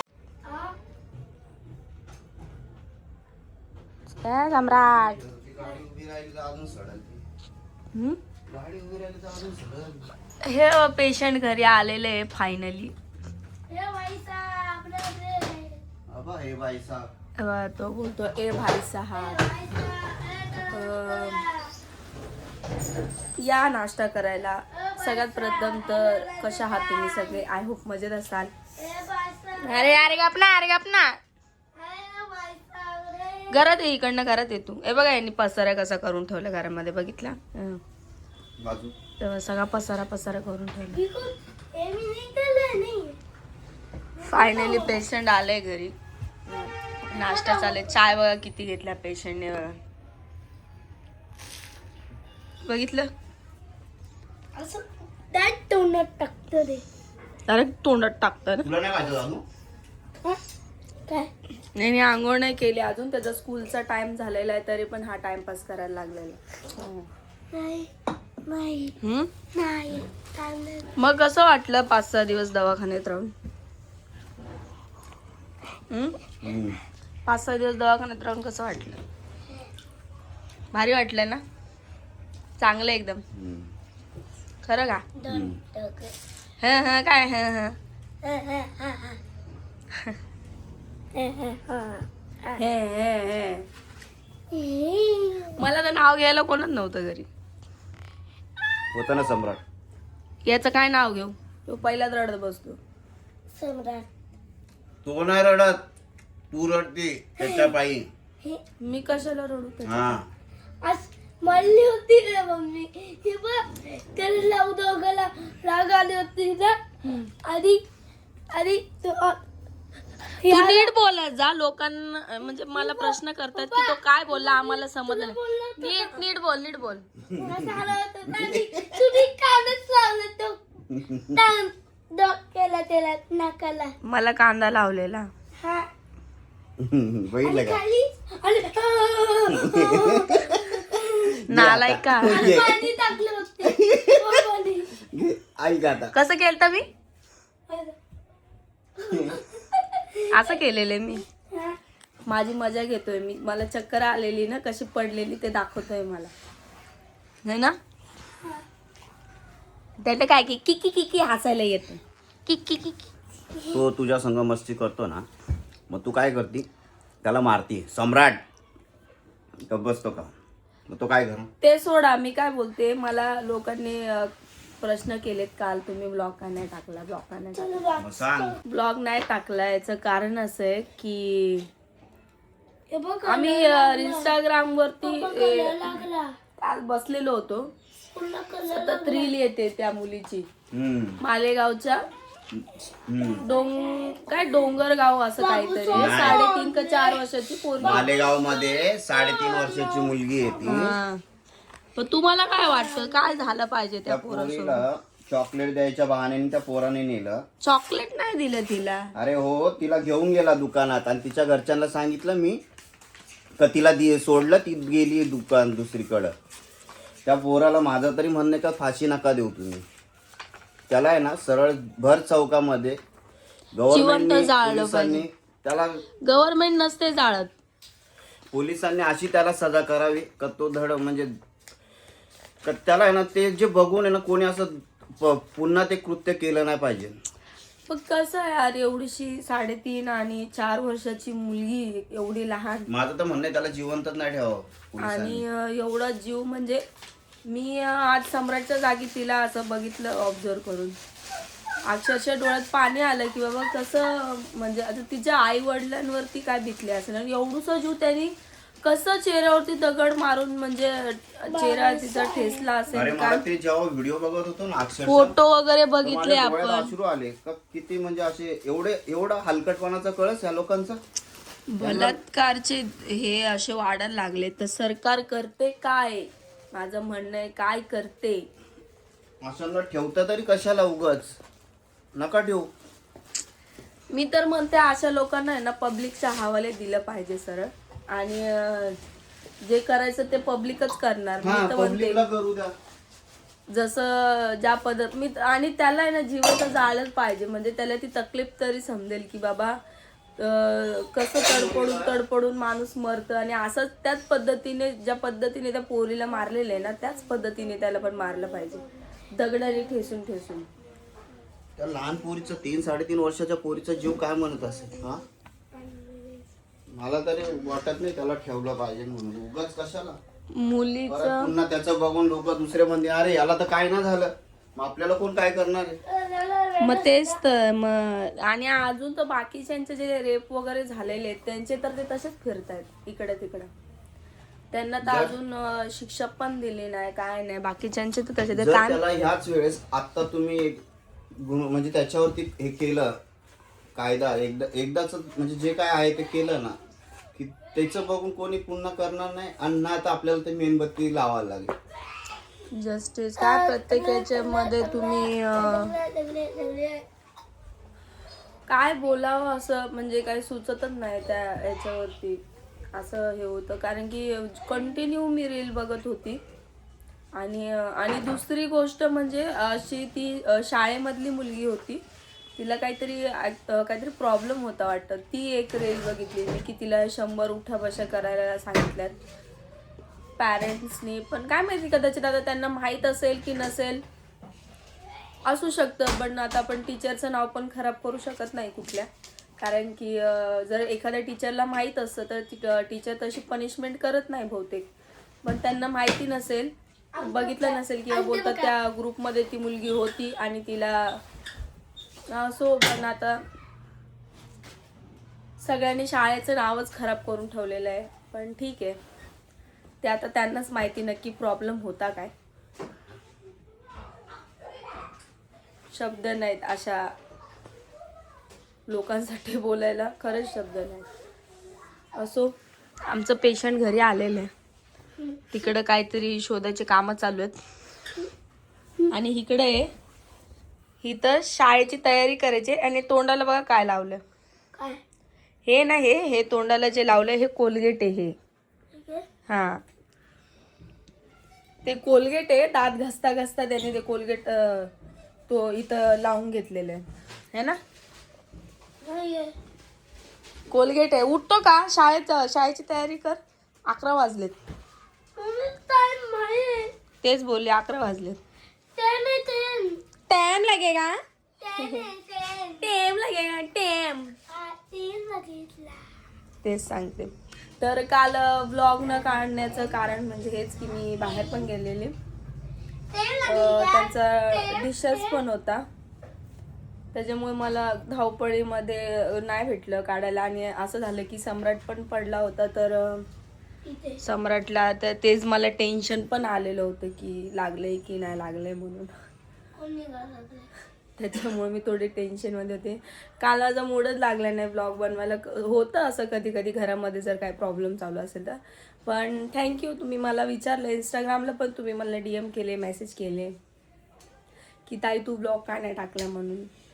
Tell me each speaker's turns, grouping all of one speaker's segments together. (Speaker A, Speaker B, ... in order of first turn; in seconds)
Speaker A: 0.4-0.7, 13.7-15.8, 19.1-21.7, 24.7-27.4, 28.8-30.2, 31.8-33.7, 40.9-43.2, 44.2-45.0, 47.1-48.1, 54.5-56.8, 67.5-67.9, 68.5-68.9, 69.5-70.9, 85.2-86.1, 88.2-89.2, 91.1-92.6, 94.5-95.6, 103.5-104.1, 107.4-107.7, 110.8-116.8, 117.4-117.8, 118.5-119.4, 120.4-120.9, 122.7-126.2, 127.4-133.9, 135.6-135.9, 137.4-141.4, 142.2-145.0, 147.7-147.9, 149.0-150.6, 151.4-151.8, 177.5-178.6, 182.9-184.3, 185.0-186.3, 188.1-189.3, 193.2-194.5, 195.4-197.2, 197.8-200.8, 202.5-203.4, 261.5-262.7, 314.6-316.5, 326.1-327.4, 353.4-357.0, 397.1-398.7, 434.7-435.0, 438.9-439.2, 449.0-449.5, 455.4-456.9, 458.9-460.0, 461.6-462.9, 464.5-466.0, 471.1-471.7, 473.1-475.4, 483.8-484.2, 489.8-490.7
Speaker B: 4.2-5.2, 7.9-8.2, 10.4-12.9, 17.4-19.4, 20.7-21.4, 23.4-28.5, 29.6-31.2, 33.5-37.8, 39.2-41.0, 44.2-45.9, 46.5-49.8, 52.6-53.1, 57.5-58.7, 61.7-67.1, 69.0-69.3, 71.0-73.3, 75.9-76.2, 77.2-79.0, 80.7-81.4, 82.6-83.2, 84.6-85.0, 86.6-87.8, 92.5-93.7, 95.6-97.3, 100.4-102.8, 108.8-110.2, 117.0-117.3, 120.4-127.1, 134.0-135.3, 141.4-142.6, 146.1-146.8, 150.3-151.2, 152.3-156.3, 157.4-157.8, 160.0-163.0, 171.6-177.7, 178.6-181.7, 183.2-186.0, 186.6-187.7, 188.7-190.5, 191.2-192.0, 193.4-198.1, 200.6-201.2, 201.9-204.8, 207.6-209.1, 223.9-225.2, 226.2-227.5, 237.9-242.9, 245.0-246.8, 247.4-251.0, 251.8-263.4, 265.1-266.9, 271.7-278.5, 284.1-289.0, 289.6-292.2, 293.7-299.8, 300.4-310.7, 320.5-321.5, 326.8-333.7, 334.7-339.0, 352.7-355.9, 358.7-362.4, 362.9-366.4, 367.4-372.0, 372.6-379.1, 380.4-384.0, 385.4-389.1, 389.6-394.9, 395.4-401.2, 402.3-403.4, 405.6-409.0, 410.0-412.3, 415.9-417.1, 418.9-421.1, 422.1-422.6, 423.1-424.5, 425.5-427.6, 429.1-429.9, 431.0-434.2, 435.6-438.3, 439.5-439.8, 441.8-444.9, 445.5-447.8, 450.7-454.6, 457.2-458.4, 460.3-461.2, 461.8-462.1, 462.8-464.3, 466.6-472.1, 473.4-475.8, 477.1-483.2, 484.2-489.1, 491.2-503.5, 504.9-506.7
Speaker C: 5.0-7.2, 8.5-10.1, 16.1-17.1, 38.6-38.9, 58.6-59.4, 76.4-76.8, 83.3-83.7, 85.3-85.6, 98.9-99.6, 105.0-105.8, 106.5-108.1, 109.8-110.3, 127.3-129.2, 130.9-131.4, 136.8-137.8, 139.5-142.9, 143.6-144.4, 145.0-146.1, 149.1-149.4, 163.7-165.2, 165.9-166.7, 167.2-168.4, 169.7-170.3, 170.9-171.5, 178.0-178.6, 190.7-191.2, 192.5-193.4, 195.9-196.4, 197.8-201.0, 204.1-207.4, 209.1-212.6, 213.6-216.3, 217.2-219.8, 220.9-223.0, 223.7-226.0, 228.5-231.3, 232.6-237.2, 242.9-245.4, 262.9-265.4, 266.0-271.0, 271.8-272.2, 279.4-281.4, 282.1-282.7, 291.4-292.7, 301.4-302.2, 311.8-315.2, 316.9-320.2, 321.1-326.0, 335.0-335.3, 338.5-340.8, 341.4-343.2, 343.9-346.8, 347.4-351.7